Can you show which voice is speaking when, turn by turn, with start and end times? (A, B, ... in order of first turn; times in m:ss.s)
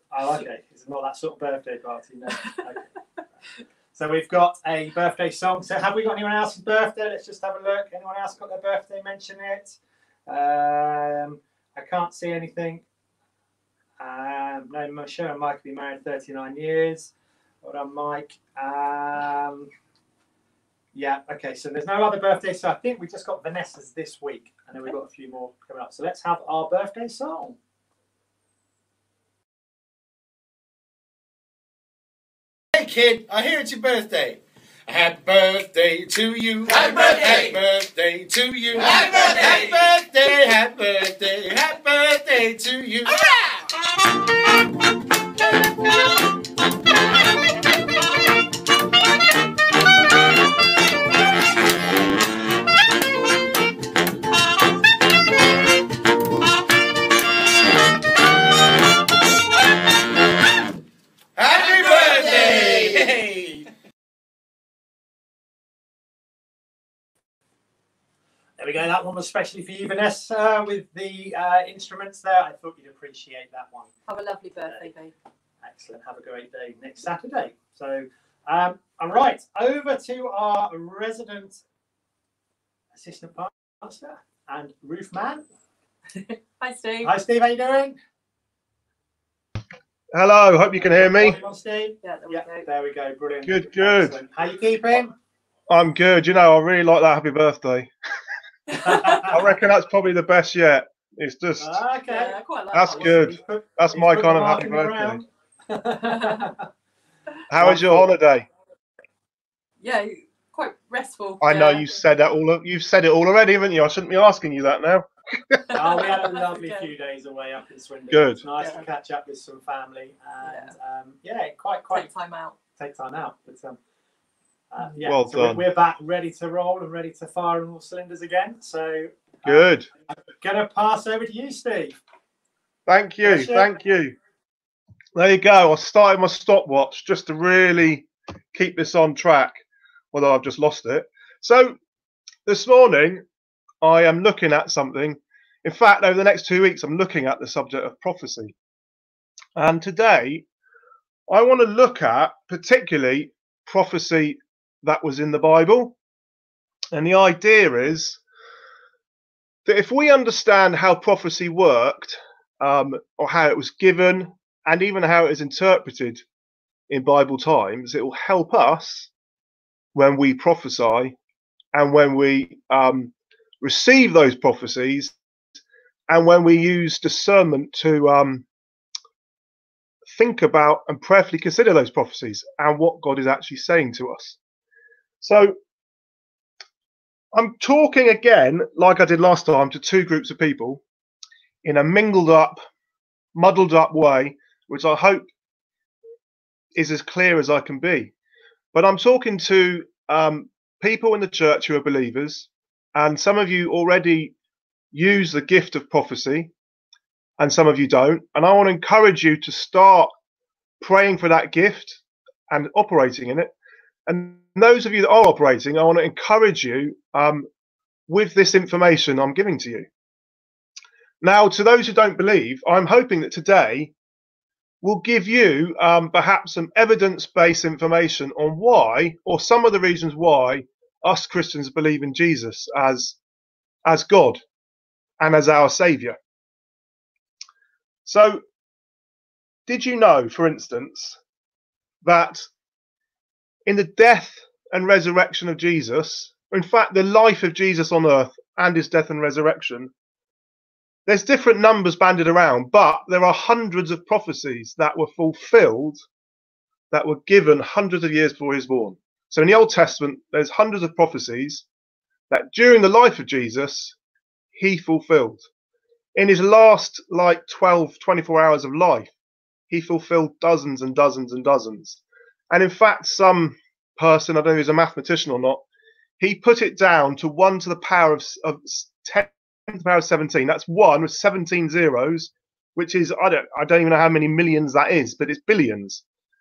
0:00.1-0:03.0 A
0:03.9-0:12.8 A
0:14.0-0:19.7 A
0:20.9-0:27.6 A
0:32.7-0:43.2 B
1:01.4-1:03.6 B
1:08.6-1:13.9 A
1:14.1-1:15.1 C
1:15.6-1:21.6 A
1:22.9-1:25.4 A
1:26.1-1:27.1 C
1:27.0-1:28.0 A
1:30.1-1:31.4 D
1:30.8-1:35.1 A
1:32.0-1:32.7 C
1:33.4-1:34.2 D
1:35.7-1:37.9 D
1:38.7-1:39.2 C
1:38.8-1:39.3 A
1:39.2-1:41.8 D
1:41.6-1:46.7 A
1:42.1-1:43.3 C
1:42.7-1:45.2 D
1:46.1-1:46.5 C
1:47.5-1:48.5 D
1:47.5-1:48.1 A
1:49.8-1:51.9 C
1:51.4-1:55.6 D
1:55.7-2:02.1 A
1:55.7-1:56.9 C
1:58.1-1:58.4 D
2:00.4-2:00.7 C
2:01.9-2:02.6 C
2:02.8-2:03.8 A
2:04.7-2:11.9 A
2:05.0-2:05.6 D
2:09.4-2:09.9 D
2:12.9-2:14.2 D
2:13.2-2:13.7 A
2:15.1-2:21.8 D
2:22.4-2:23.2 D
2:23.8-2:28.5 D
2:29.6-2:30.4 D
2:31.3-2:36.0 D
2:36.9-2:38.2 D
2:39.6-2:46.2 D
2:46.9-2:49.1 D
2:49.9-2:51.2 D
2:51.7-2:55.2 D
2:56.1-2:58.4 D
3:00.1-3:04.4 D
3:05.2-3:05.6 D
3:07.3-3:10.8 D
3:11.6-3:12.6 D
3:13.4-3:15.3 D
3:16.7-3:18.1 D
3:18.7-3:24.3 D
3:24.9-3:26.5 D
3:27.4-3:30.1 D
3:30.8-3:33.5 D
3:34.1-3:37.5 D
3:38.1-3:39.9 D
3:41.2-3:43.9 D
3:44.8-3:53.2 D
3:53.8-3:54.4 D
3:55.2-3:56.2 D
3:58.1-3:58.4 D
3:59.7-4:01.2 D
4:02.0-4:02.5 D
4:03.6-4:09.9 D
4:11.1-4:16.0 D
4:16.9-4:21.6 D
4:22.3-4:24.0 D
4:24.6-4:25.4 D
4:26.1-4:29.1 D
4:29.7-4:32.0 D
4:32.5-4:35.6 D
4:36.2-4:46.0 D